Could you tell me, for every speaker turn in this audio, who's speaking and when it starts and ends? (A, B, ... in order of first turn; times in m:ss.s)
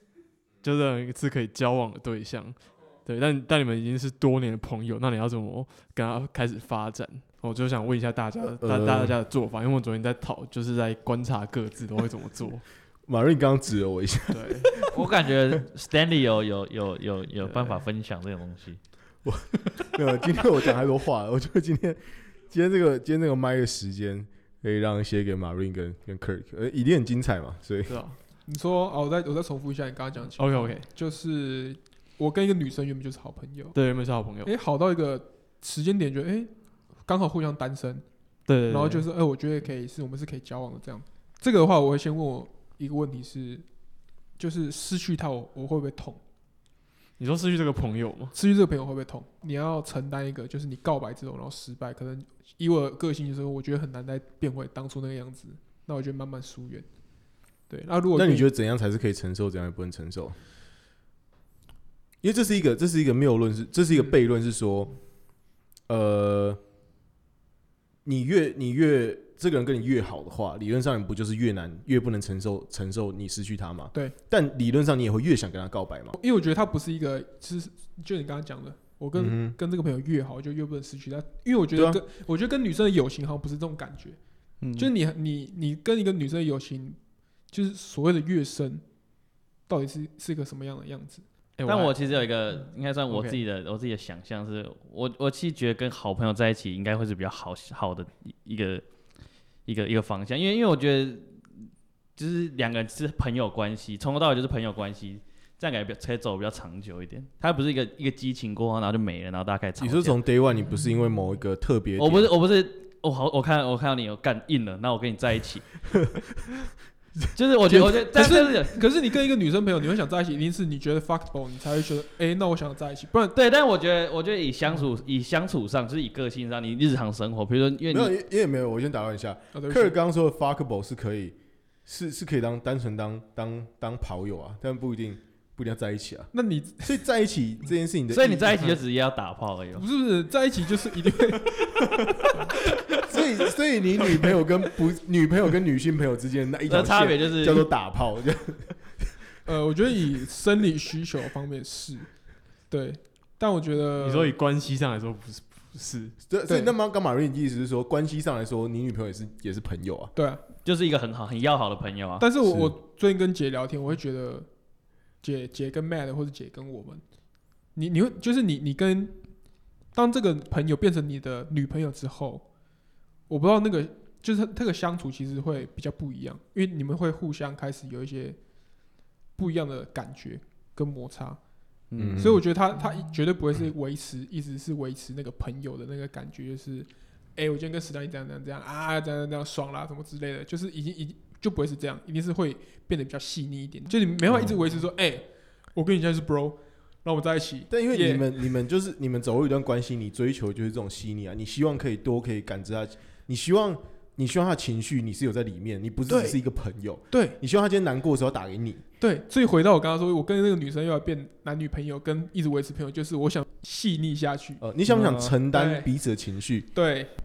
0:00.6-0:12.6 A
0:08.4-0:09.2 B
0:13.0-0:15.6 B
0:14.3-0:14.8 A
0:14.8-0:18.8 C
0:17.4-0:17.8 A
0:19.2-0:28.0 B
0:27.9-0:28.2 A
0:28.4-0:33.8 D
0:30.4-0:30.9 A
0:33.7-0:34.5 A
0:34.4-0:38.0 D
0:38.5-0:39.0 A
0:38.7-0:43.6 D
0:44.4-0:46.2 D
0:47.2-0:48.3 A
0:48.3-0:56.9 D
0:57.7-0:58.5 D
0:58.1-1:00.4 B
1:02.2-1:06.6 B
1:08.0-1:16.1 B
1:16.1-1:27.0 D
1:19.1-1:19.6 B
1:21.7-1:22.0 B
1:24.6-1:24.9 C
1:27.5-1:28.8 D
1:29.6-1:31.2 D
1:31.6-1:32.0 A
1:31.6-1:38.8 C
1:33.1-1:33.4 A
1:39.6-1:41.4 C
1:42.2-1:50.2 C
1:49.8-1:52.3 B
1:52.0-1:55.7 C
1:57.3-1:58.8 C
1:57.7-2:03.4 D
2:03.3-2:08.1 C
2:07.9-2:18.7 B
2:09.5-2:10.0 D
2:16.3-2:17.0 D
2:18.1-2:19.8 C
2:19.7-2:22.5 D
2:23.0-2:29.1 B
2:26.7-2:27.6 C
2:29.4-2:34.3 D
2:34.0-2:36.2 A
2:36.3-2:40.1 B
2:36.5-2:36.7 D
2:40.1-2:40.4 D
2:40.6-2:42.2 C
2:42.2-2:44.5 D
2:42.4-2:42.7 B
2:45.2-2:47.0 D
2:47.7-2:49.3 D
2:49.9-2:52.4 D
2:53.3-2:58.4 D
2:59.3-3:01.4 D
3:01.9-3:02.2 C
3:02.0-3:02.4 B
3:02.2-3:18.3 D
3:17.7-3:28.8 B
3:26.1-3:26.4 D
3:27.1-3:27.4 D
3:29.0-3:34.6 D
3:34.6-3:36.7 B
3:34.9-3:35.3 C
3:35.5-3:35.9 D
3:36.7-3:37.1 D